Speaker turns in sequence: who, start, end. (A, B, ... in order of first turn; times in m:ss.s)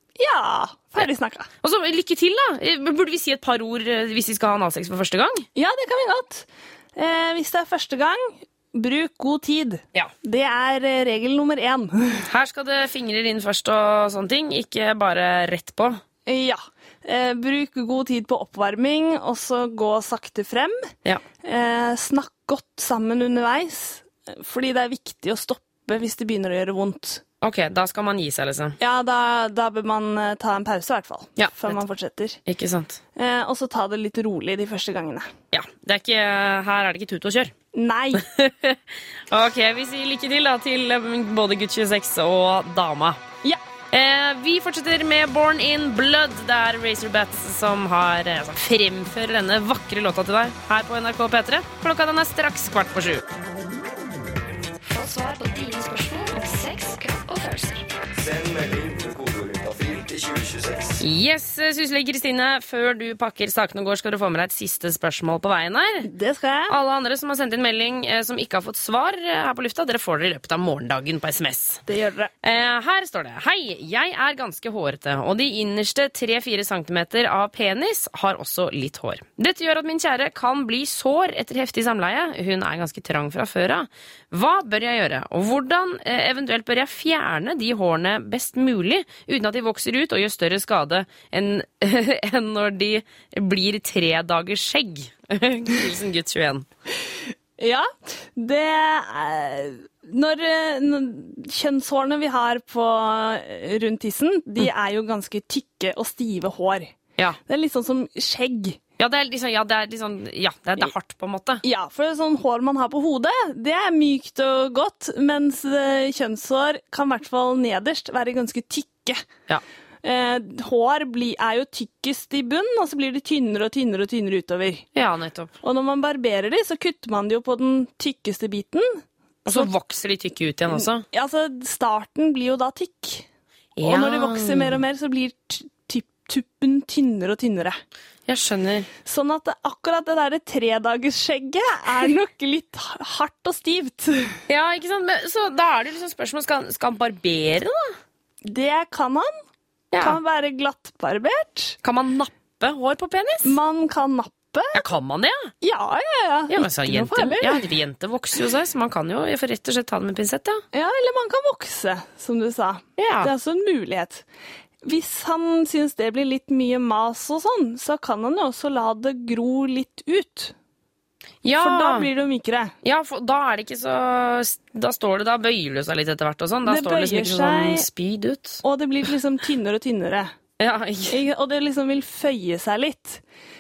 0:00.2-0:01.5 A
0:01.6-0:05.5 B
0:05.6-0:12.2 A
0:12.2-0:16.0 B
0:16.3-0:20.9 A
0:21.4-0:27.2 A
0:27.4-0:28.8 B
0:28.8-0:32.4 A
0:31.4-0:31.8 B
0:32.5-0:33.0 B
0:33.2-0:35.3 A
0:35.5-0:37.5 B
0:37.7-0:38.2 A
0:38.2-0:38.8 B
0:39.3-0:43.2 B
0:43.9-0:53.2 B
0:54.9-0:57.9 C
0:58.2-1:01.0 D
1:01.0-1:06.1 B
1:06.0-1:06.8 A
1:06.7-1:11.8 B
1:11.9-1:12.3 A
1:12.4-1:36.7 B
1:37.1-1:46.9 A
1:47.5-1:48.8 A
1:49.0-1:51.6 B
1:51.6-1:59.2 A
2:00.0-2:04.8 A
2:05.0-2:05.6 B
2:05.6-2:09.7 A
2:09.5-2:11.0 B
2:10.7-2:13.2 A
2:13.8-2:14.8 B
2:13.8-2:17.8 A
2:18.3-2:18.9 B
2:19.0-2:24.4 A
2:24.5-2:28.0 B
2:28.4-2:29.3 A
2:29.9-2:30.2 B
2:30.0-2:31.8 A
2:31.8-2:33.6 B
2:33.4-2:34.8 A
2:34.7-2:35.5 B
2:35.6-2:37.6 A
2:36.5-2:40.6 B
2:40.7-2:44.2 A
2:43.0-2:43.3 B
2:44.8-2:50.5 A
2:51.4-2:52.1 B
2:51.6-2:52.7 A
2:52.8-2:58.6 B
2:56.7-2:57.8 A
2:58.6-3:00.3 A
3:00.6-3:01.2 B
3:01.1-3:03.2 A